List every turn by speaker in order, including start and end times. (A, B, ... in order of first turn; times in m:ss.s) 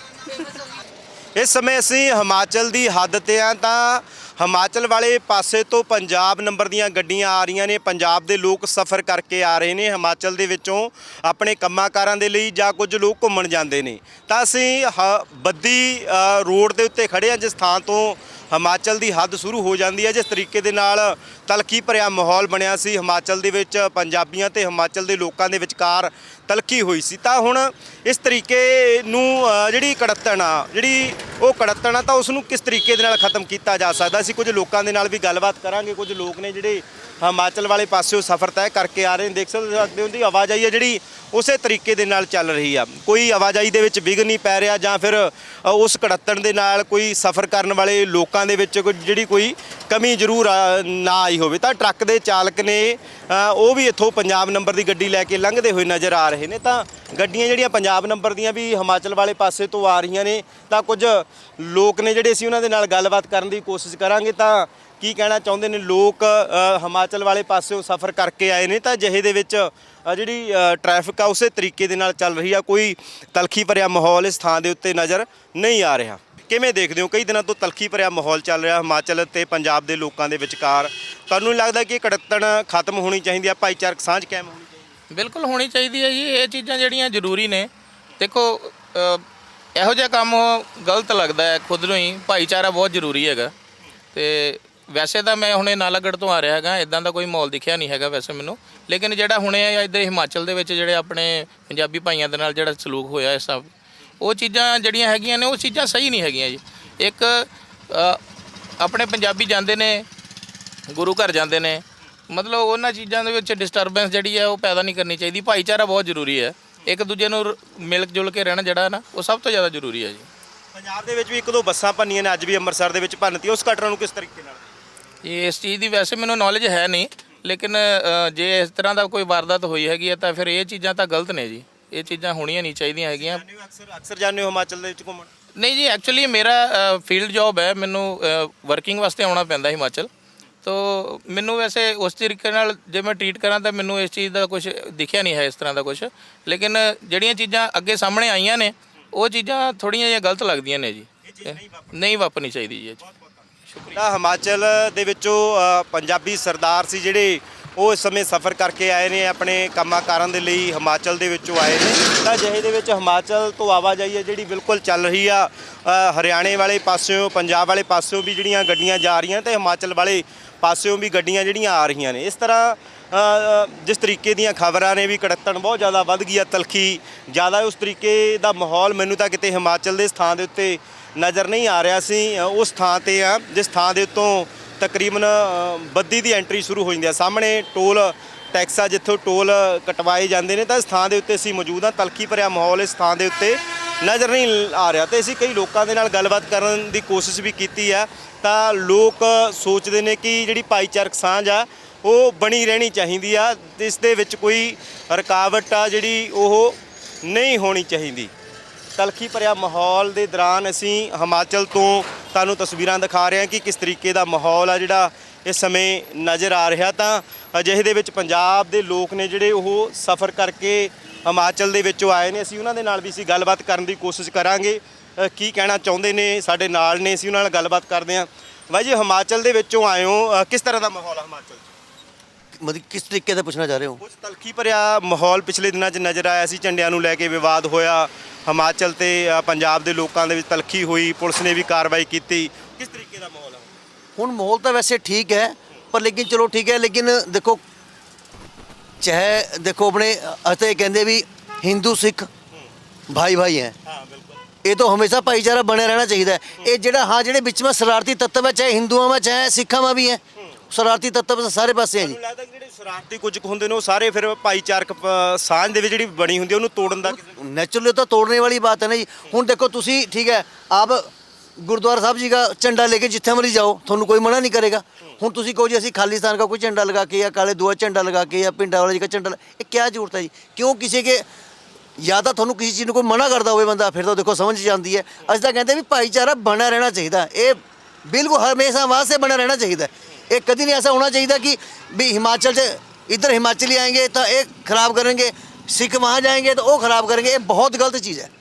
0:01.4-1:24.8 A
1:25.1-1:29.2 B
1:29.7-1:33.5 B
1:34.1-1:48.2 B
1:48.8-1:50.0 B
1:50.9-2:00.3 B
2:00.7-2:04.7 A
2:05.2-2:13.4 B
2:13.1-2:15.3 A
2:15.6-2:20.1 B
2:20.6-2:33.0 B
2:31.2-2:32.0 A
2:33.0-3:28.3 A
3:29.0-3:51.7 A
3:52.6-3:54.0 C
3:54.0-4:03.7 A
4:04.2-4:07.6 C
4:09.0-4:12.3 C
4:13.1-4:13.7 C
4:13.8-4:14.4 A
4:14.6-4:22.2 C
4:22.0-4:27.2 A
4:27.1-4:41.2 C
4:42.0-4:58.3 C